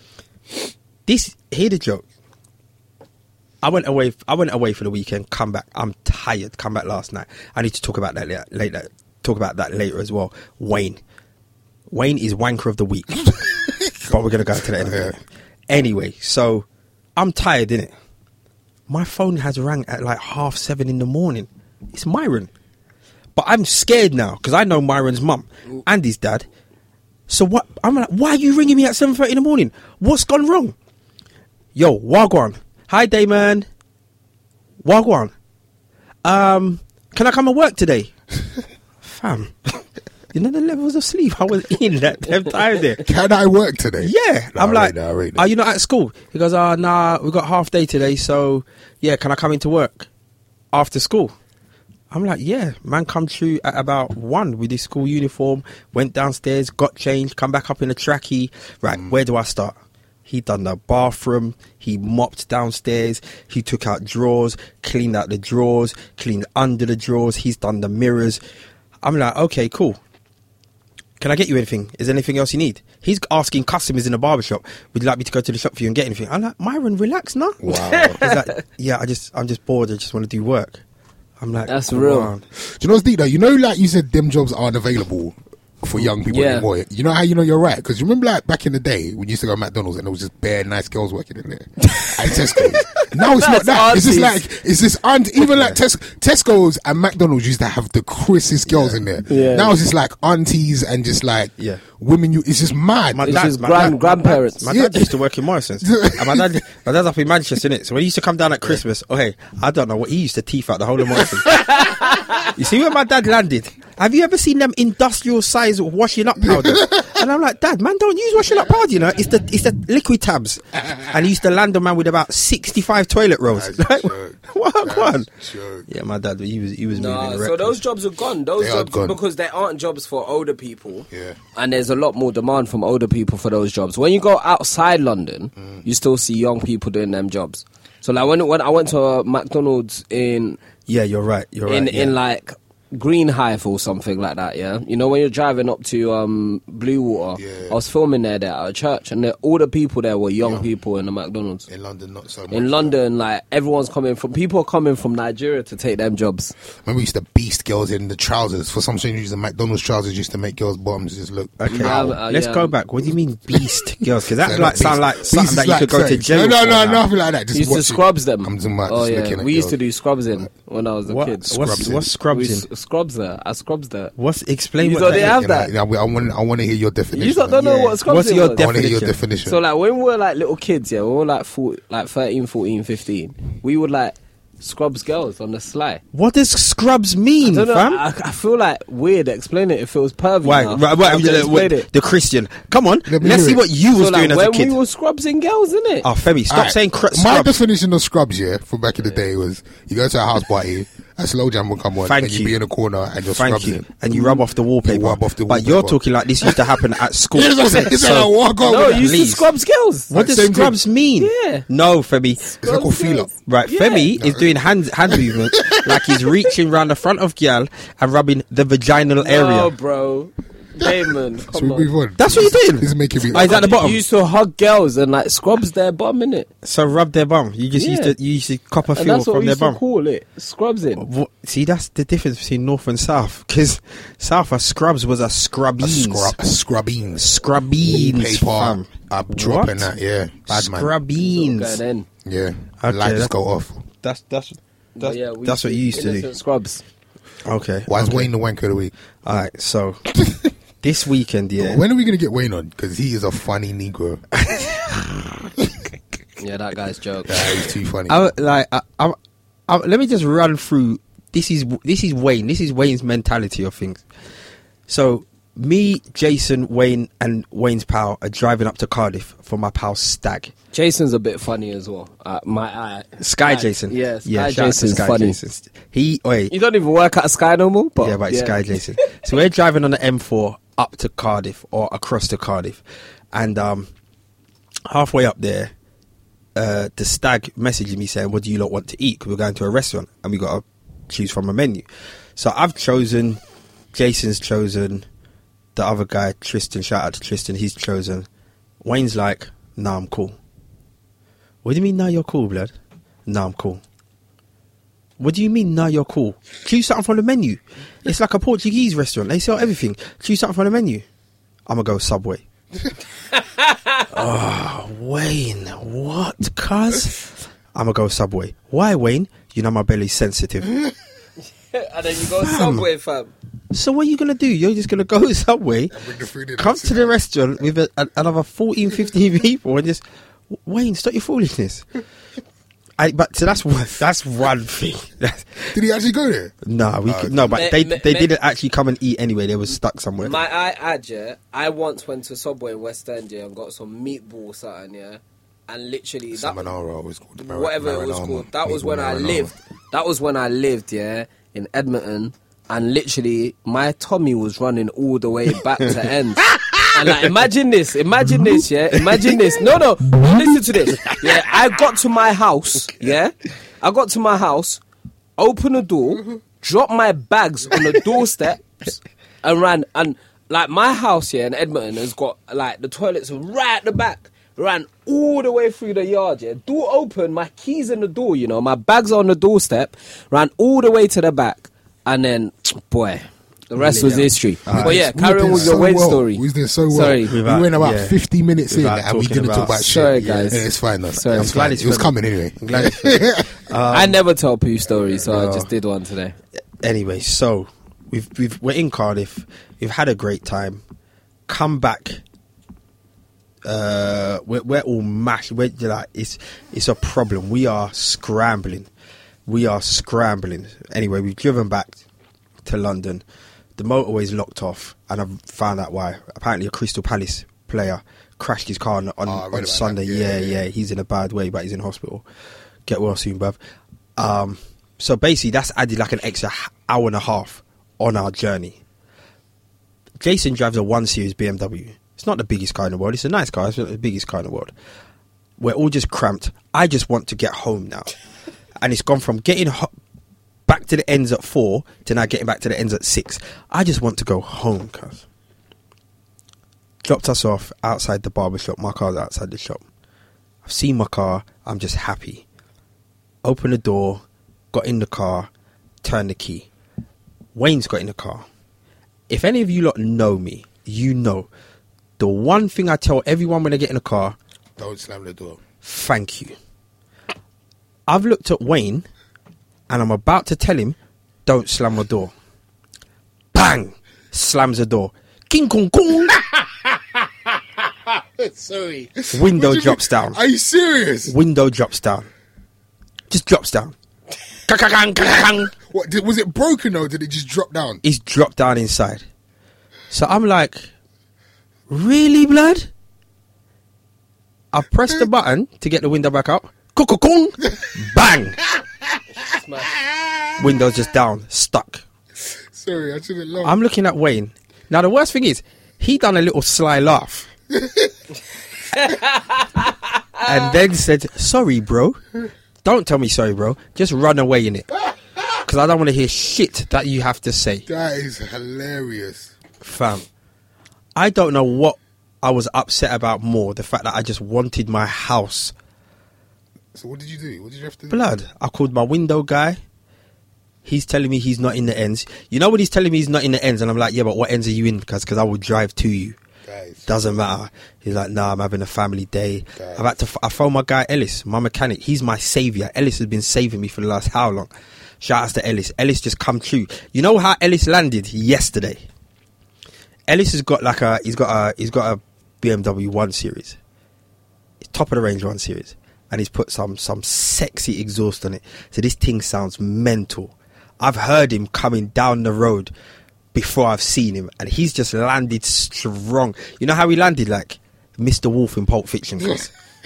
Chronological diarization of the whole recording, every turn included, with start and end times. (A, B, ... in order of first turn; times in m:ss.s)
0:01.0-0:02.0 A
0:03.6-0:11.0 A
0:11.9-0:16.6 A
0:14.7-0:15.2 B
0:17.2-0:17.9 A
0:18.9-0:22.5 A
0:23.4-0:26.4 A
0:27.3-0:30.7 A
0:31.7-0:33.7 A
0:34.8-0:35.3 A
0:36.2-0:38.1 A
0:39.0-0:43.1 A
0:43.0-0:45.4 B
0:44.0-0:50.1 A
0:50.7-0:51.3 A
0:52.1-0:59.7 A
1:00.2-1:08.4 A
1:09.0-1:10.0 A
1:11.2-1:20.8 A
1:17.6-1:18.2 B
1:17.7-1:18.5 C
1:21.4-1:22.4 A
1:21.7-1:22.3 C
1:22.6-1:43.5 B
1:26.2-1:26.7 C
1:31.9-1:34.4 C
1:38.7-1:39.0 A
1:39.3-1:39.7 C
1:43.1-1:51.8 A
1:43.2-1:44.7 C
1:44.6-1:45.1 B
1:45.8-1:46.6 B
1:51.4-1:52.5 C
1:52.4-2:05.3 A
1:56.4-1:57.1 B
2:03.5-2:05.9 B
2:05.9-2:07.8 A
2:06.9-2:20.6 C
2:08.6-2:09.2 B
2:11.1-2:11.4 B
2:20.9-2:22.1 A
2:21.7-2:31.6 C
2:27.4-2:27.8 B
2:31.7-2:32.9 B
2:32.5-2:36.5 C
2:36.8-2:42.1 B
2:41.6-2:47.0 A
2:41.7-2:42.7 C
2:44.4-2:49.8 B
2:47.5-2:51.6 C
2:51.1-2:52.6 A
2:51.5-2:52.1 B
2:52.3-2:54.1 C
2:54.2-2:55.4 A
2:54.8-2:55.7 C
2:55.0-2:58.0 B
2:57.1-2:58.7 C
2:57.9-2:59.2 A
2:58.6-2:59.6 B
2:59.4-3:06.0 C
3:06.1-3:08.0 A
3:07.4-3:11.9 C
3:10.4-3:14.8 A
3:13.1-3:13.6 B
3:13.9-3:16.1 C
3:16.0-3:17.6 A
3:16.5-3:26.6 B
3:22.0-3:22.5 A
3:23.3-3:29.5 A
3:27.3-3:29.1 B
3:28.6-3:30.1 C
3:30.1-3:32.5 A
3:30.1-3:30.8 B
3:31.2-3:31.6 C
3:32.5-3:34.1 C
3:32.6-3:33.3 B
3:33.4-3:39.7 A
3:34.1-3:34.5 B
3:35.1-3:36.3 B
3:39.2-3:41.9 C
3:40.8-3:43.8 B
3:42.2-3:44.0 A
3:43.3-3:46.5 C
3:46.6-3:49.8 A
3:47.8-3:48.1 C
3:48.9-3:51.0 C
3:51.0-3:56.4 A
3:55.8-4:00.9 B
3:57.2-3:59.9 A
4:00.5-4:01.8 A
4:01.2-4:02.1 C
4:02.2-4:03.8 B
4:02.8-4:03.3 A
4:04.0-4:06.3 A
4:05.0-4:06.8 C
4:07.4-4:08.3 A
4:07.9-4:08.9 B
4:09.2-4:10.2 A
4:10.8-4:11.8 A
4:11.6-4:14.2 B
4:14.4-4:15.5 A
4:16.4-4:17.6 C
4:17.2-4:18.2 B
4:18.1-4:19.2 A
4:19.7-4:24.0 A
4:24.9-4:30.5 A
4:30.7-4:35.4 C
4:33.2-4:36.5 A
4:36.5-4:39.1 C
4:38.0-4:42.8 A
4:43.3-4:43.9 A
4:44.9-4:45.7 A
4:46.6-4:53.4 A
4:53.9-4:55.0 A
4:55.8-4:58.3 A
4:58.8-5:00.4 A
5:01.6-5:02.7 A
5:03.2-5:03.8 A
5:05.2-5:11.0 A
5:11.7-5:12.4 A
5:13.3-5:14.1 C
5:14.1-5:20.8 A
5:21.7-5:23.3 C
5:22.4-5:22.9 A
5:23.7-5:26.0 A
5:25.9-5:27.2 B
5:26.6-5:30.0 A
5:30.6-5:31.8 A
5:33.0-5:35.8 A
5:35.7-5:36.5 B
5:36.6-5:40.4 A
5:37.0-5:37.6 B
5:37.5-5:38.3 C
5:40.2-5:46.7 C
5:46.3-5:49.5 B
5:47.4-6:04.8 C
5:56.5-5:56.8 B
6:05.4-6:27.3 C
6:23.8-6:25.8 A
6:24.7-6:33.6 B
6:27.2-6:28.2 A
6:28.7-6:30.5 A
6:29.8-6:30.6 C
6:31.2-6:31.5 C
6:31.2-6:34.2 A
6:33.9-6:36.4 C
6:35.3-6:35.7 A
6:36.8-6:40.8 A
6:41.5-6:42.2 A
6:43.6-6:48.9 A
6:49.5-6:52.0 A
6:52.6-6:53.2 A
6:53.8-7:02.2 A
6:59.2-7:00.6 B
7:02.9-7:03.6 A
7:04.2-7:08.8 A
7:10.2-7:14.7 A
7:15.6-7:18.1 A
7:18.8-7:19.9 A
7:20.7-7:25.2 A
7:27.0-7:29.8 A
7:30.6-7:32.4 A
7:33.4-7:35.5 A
7:36.0-7:36.7 A
7:37.5-7:38.4 A
7:39.3-7:41.5 A
7:42.2-7:44.4 A
7:44.8-7:45.6 B
7:45.8-7:46.5 A
7:48.1-7:49.0 A
7:49.9-7:52.3 A
7:53.5-7:56.4 A
7:56.3-8:01.3 B
7:59.3-8:00.4 A
8:01.3-8:02.3 A
8:03.3-8:03.9 A
8:04.7-8:05.7 A
8:05.2-8:08.0 B
8:08.0-8:09.2 A
8:10.1-8:10.9 A
8:11.9-8:12.9 A
8:14.7-8:18.6 A
8:18.7-8:19.2 B
8:19.4-8:19.9 C
8:19.8-8:20.7 B
8:20.6-8:22.0 A
8:22.7-8:23.8 B
8:23.6-8:27.5 A
8:27.7-8:28.1 B
8:29.0-8:29.8 C
8:30.4-8:32.2 A
8:32.8-8:34.9 A
8:35.6-8:37.8 A
8:37.9-8:39.5 B
8:39.8-8:40.2 A
8:41.2-8:45.7 A
8:46.9-8:48.2 B
8:48.1-8:49.8 A
8:50.8-8:56.4 A
8:56.6-8:57.1 B
8:57.1-9:04.7 A
8:59.8-9:00.0 B
9:05.2-9:09.0 A
9:10.3-9:13.8 A
9:14.8-9:22.9 A
9:23.5-9:29.7 A